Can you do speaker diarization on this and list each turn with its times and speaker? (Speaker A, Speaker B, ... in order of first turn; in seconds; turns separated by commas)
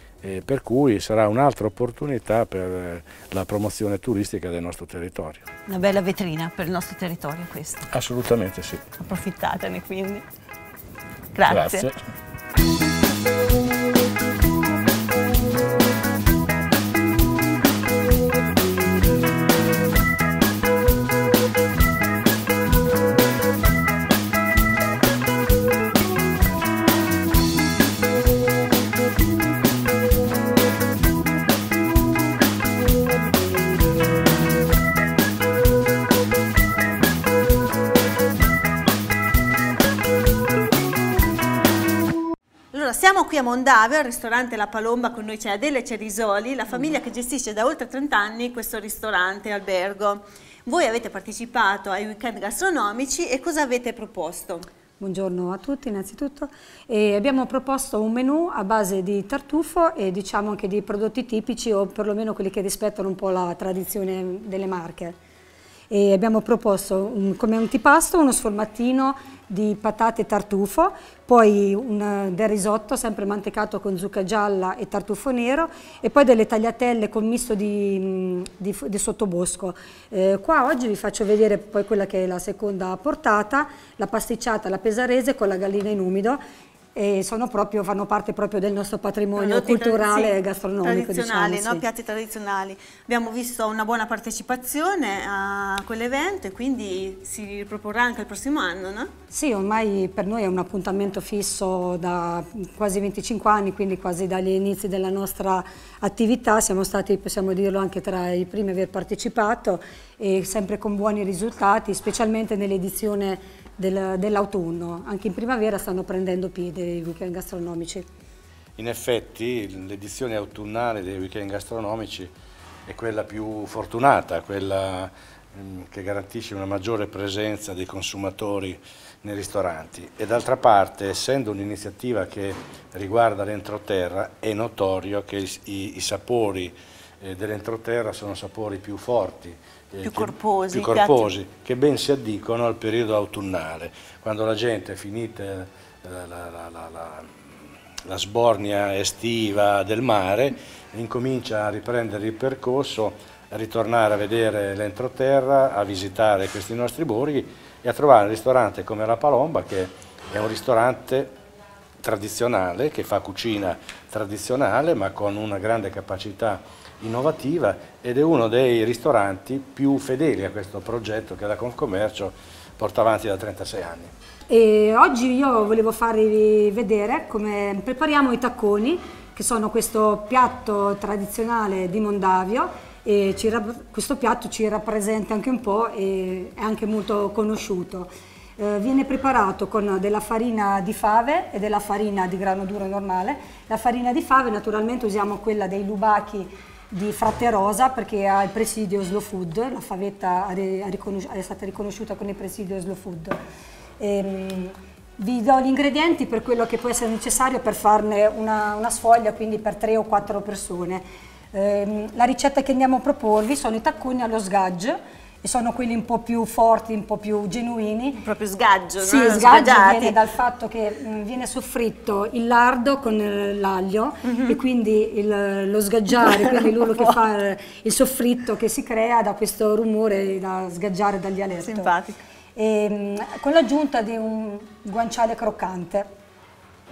Speaker A: 0.2-5.5, Speaker B: 5.7-7.9, Speaker A: 7.9-8.8, Speaker B: 9.0-10.2, Speaker B: 11.3-11.9, Speaker A: 11.5-12.0, Speaker B: 42.7-54.6, Speaker C: 55.0-65.2, Speaker C: 65.9-86.4, Speaker C: 87.0-91.8, Speaker B: 89.4-99.1, Speaker C: 99.3-118.1, Speaker A: 118.8-122.3, Speaker A: 122.9-147.5, Speaker B: 140.0-141.3, Speaker A: 148.1-161.4, Speaker A: 162.0-174.1, Speaker C: 174.5-203.4, Speaker C: 204.0-218.2, Speaker B: 218.2-220.2, Speaker C: 219.0-231.9, Speaker B: 226.3-226.6, Speaker B: 231.6-232.2, Speaker C: 232.6-236.1